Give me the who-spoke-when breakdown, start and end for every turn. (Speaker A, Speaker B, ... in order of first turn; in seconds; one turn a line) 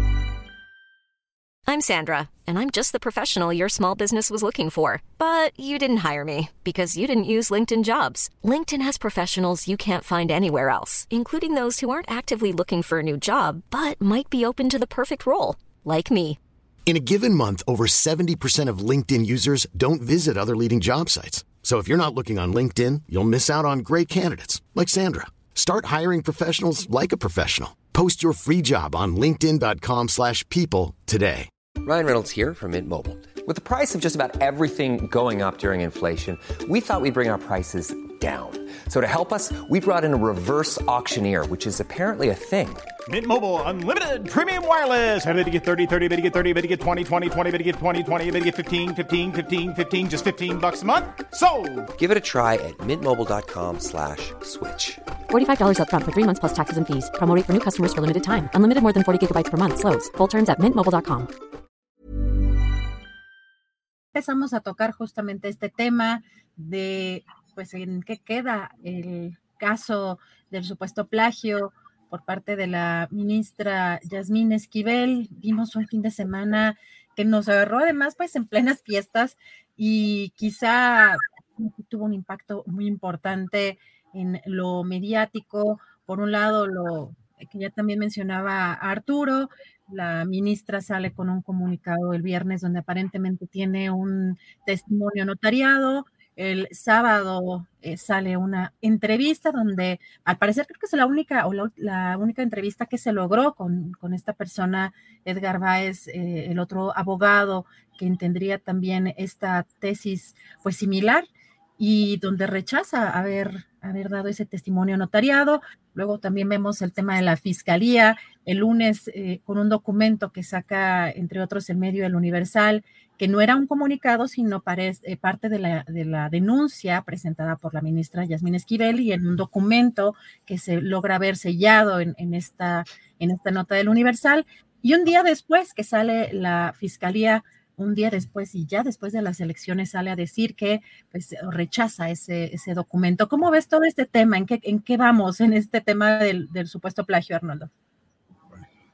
Speaker A: 1.7-16.4
Speaker B: 16.9-31.5
Speaker C: 31.8-42.9
Speaker D: 43.1-51.9
Speaker C: 52.0-55.0
Speaker E: 55.3-61.3
Speaker F: 64.2-111.2
Speaker F: 111.8-147.7